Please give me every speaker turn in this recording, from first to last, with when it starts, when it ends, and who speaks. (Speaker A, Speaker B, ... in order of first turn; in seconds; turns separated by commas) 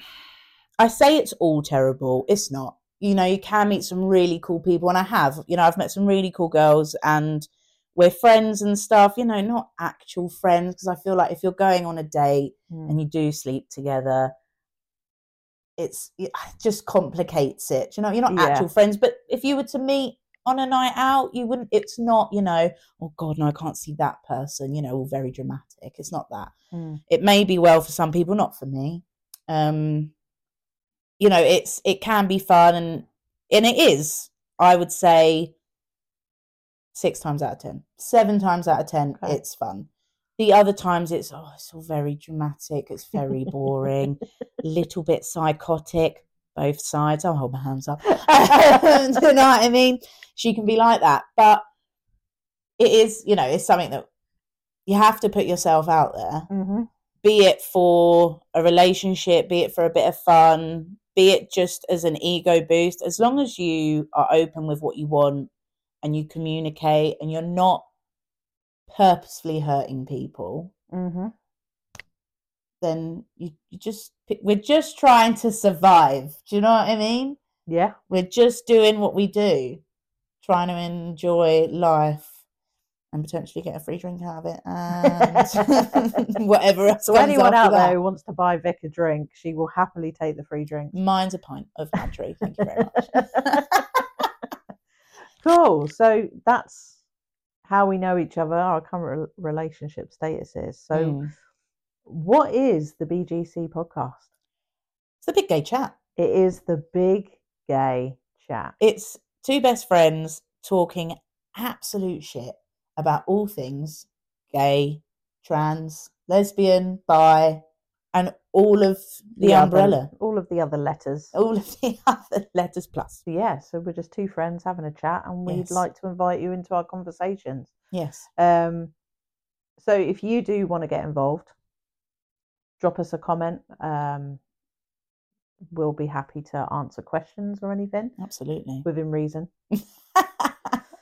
Speaker A: 0.8-14.3, Speaker B: 12.7-13.0, Speaker A: 15.8-26.5, Speaker B: 18.3-18.7, Speaker B: 26.7-27.0, Speaker A: 27.1-30.1, Speaker A: 31.2-35.5, Speaker A: 36.9-51.6, Speaker A: 52.8-54.1, Speaker A: 54.9-56.5, Speaker B: 56.5-56.9, Speaker A: 57.2-65.5, Speaker A: 66.0-67.8, Speaker A: 68.9-70.7, Speaker B: 70.9-71.3, Speaker A: 72.8-77.4, Speaker B: 77.7-77.9, Speaker A: 78.1-79.8, Speaker A: 80.4-82.3, Speaker A: 83.1-88.0, Speaker B: 85.0-86.2, Speaker B: 87.1-90.9, Speaker A: 90.9-93.8, Speaker B: 93.1-93.6, Speaker B: 95.4-97.0, Speaker B: 97.7-101.2, Speaker A: 100.9-101.3, Speaker B: 102.0-104.3, Speaker A: 105.2-106.0, Speaker B: 106.2-108.7, Speaker A: 108.8-117.6, Speaker A: 118.1-120.1, Speaker B: 119.4-121.3, Speaker A: 121.3-123.2, Speaker B: 123.3-127.7, Speaker A: 125.5-125.8, Speaker A: 127.9-128.2, Speaker B: 128.4-128.9, Speaker B: 129.8-131.5, Speaker B: 132.8-134.4, Speaker B: 135.7-138.2, Speaker A: 138.2-138.8, Speaker B: 138.8-139.5, Speaker A: 140.2-140.8